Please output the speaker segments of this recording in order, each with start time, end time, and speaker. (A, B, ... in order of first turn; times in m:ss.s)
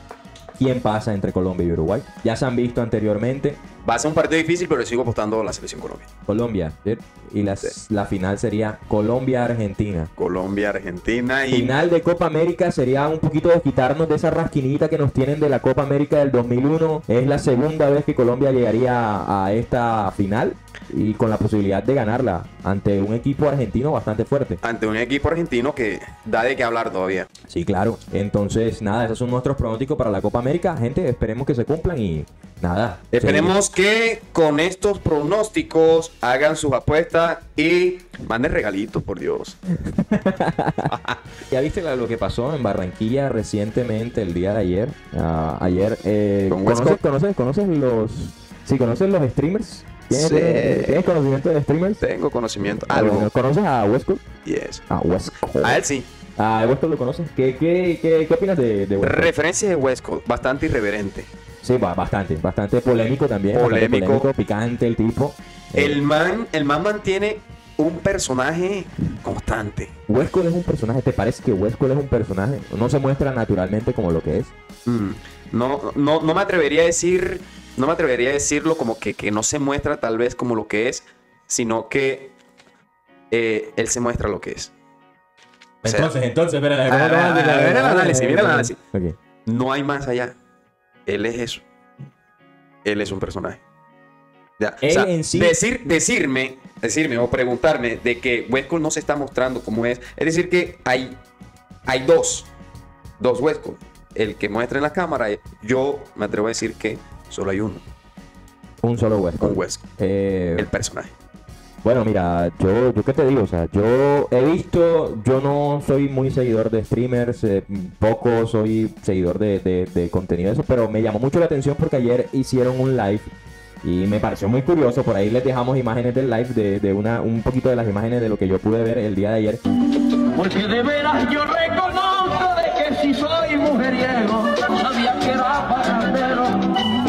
0:00.5-0:03.6 A
0:03.8-0:06.1 B
0:06.3-0:10.1 A
0:10.2-0:11.8 B
0:11.5-0:24.6 A
0:24.6-0:27.3 B
0:27.5-0:33.6 A
0:33.1-0:39.6 B
0:39.8-0:40.9 A
0:40.9-0:41.2 B
0:41.5-0:52.0 A
0:46.5-0:47.0 B
0:50.1-0:51.0 B
0:52.0-0:53.3 B
0:52.6-0:54.2 A
0:54.4-0:54.8 B
0:54.9-0:55.8 A
0:55.6-0:56.1 B
0:56.4-0:59.3 A
0:59.0-1:01.3 B
1:01.6-1:06.0 A
1:03.5-1:04.3 B
1:05.8-1:09.9 B
1:10.1-1:14.5 A
1:14.9-1:22.3 B
1:23.3-1:24.7 B
1:25.8-1:29.2 A
1:25.8-1:26.1 B
1:26.9-1:28.8 B
1:29.5-1:30.4 B
1:31.1-1:31.6 B
1:32.8-1:33.6 B
1:34.6-1:41.2 B
1:34.8-1:35.6 A
1:41.9-1:42.5 B
1:43.2-1:47.9 B
1:48.8-1:50.7 A
1:49.4-1:49.8 B
1:50.6-1:51.1 B
1:51.8-2:03.3 A
2:03.8-2:09.6 A
2:10.3-2:16.8 C